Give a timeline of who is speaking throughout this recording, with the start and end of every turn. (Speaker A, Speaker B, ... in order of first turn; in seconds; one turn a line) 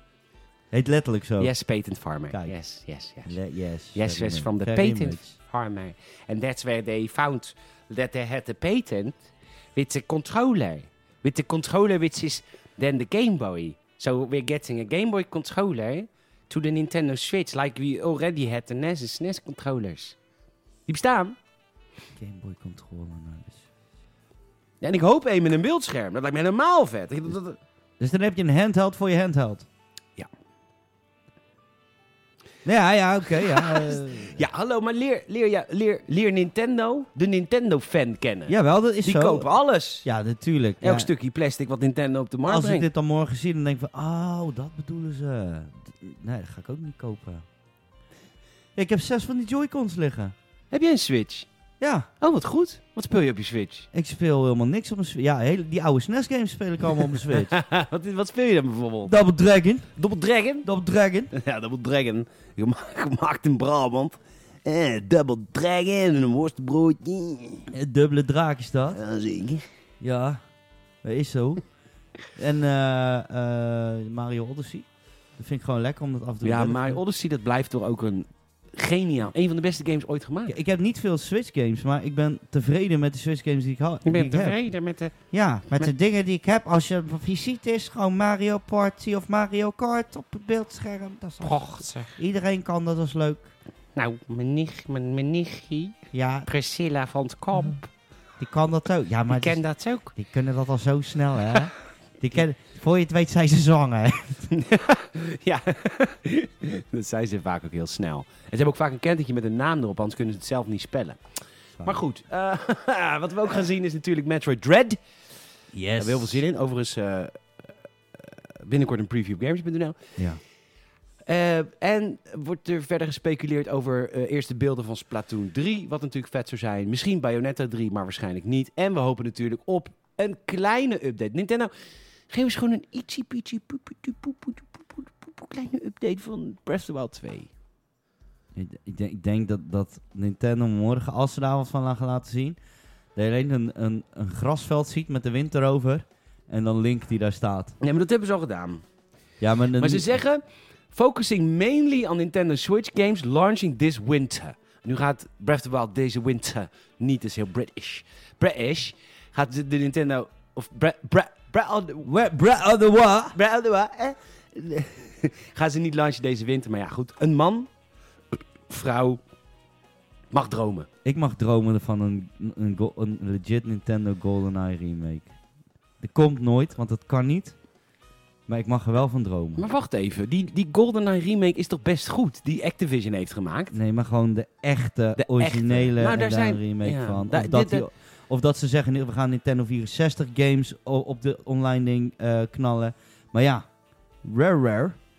Speaker A: 0.7-1.5
Speaker B: 1.4-3.4
Speaker A: 3.3-5.3
Speaker B: 3.9-9.2
Speaker B: 9.7-20.2
Speaker B: 20.9-21.4
Speaker A: 22.2-23.6
Speaker B: 24.8-27.6
Speaker A: 28.0-29.7
Speaker A: 32.6-34.4
Speaker B: 33.4-40.0
Speaker A: 38.5-39.5
Speaker A: 40.0-41.1
Speaker B: 40.8-42.9
Speaker A: 42.5-47.4
Speaker A: 48.8-50.3
Speaker B: 50.7-51.5
Speaker A: 51.8-52.1
Speaker B: 52.2-53.9
Speaker A: 53.9-57.5
Speaker B: 57.2-59.1
Speaker A: 59.0-59.9
Speaker B: 60.0-60.7
Speaker A: 60.6-61.3
Speaker B: 61.3-67.7
Speaker A: 67.7-69.0
Speaker B: 68.9-69.6
Speaker A: 70.0-70.4
Speaker A: 71.0-71.6
Speaker A: 72.3-77.0
Speaker B: 76.4-80.6
Speaker A: 80.5-84.6
Speaker B: 84.0-85.1
Speaker A: 85.3-93.5
Speaker B: 91.4-92.2
Speaker B: 93.9-97.9
Speaker A: 96.1-96.5
Speaker A: 98.4-99.6
Speaker B: 99.3-100.1
Speaker A: 100.1-104.5
Speaker B: 104.5-115.0
Speaker A: 115.7-116.4
Speaker B: 116.0-120.0
Speaker B: 121.2-131.7
Speaker B: 132.3-137.5
Speaker A: 138.5-142.6
Speaker A: 143.1-147.8
Speaker B: 147.8-148.8
Speaker A: 149.4-150.2
Speaker B: 149.8-162.1
Speaker A: 162.0-163.4
Speaker B: 163.3-167.7
Speaker B: 168.3-169.2
Speaker B: 170.3-170.9
Speaker A: 171.0-175.3
Speaker A: 176.0-177.6
Speaker A: 178.5-179.7
Speaker B: 179.6-183.7
Speaker A: 183.7-193.6
Speaker B: 185.2-187.8
Speaker A: 194.2-195.0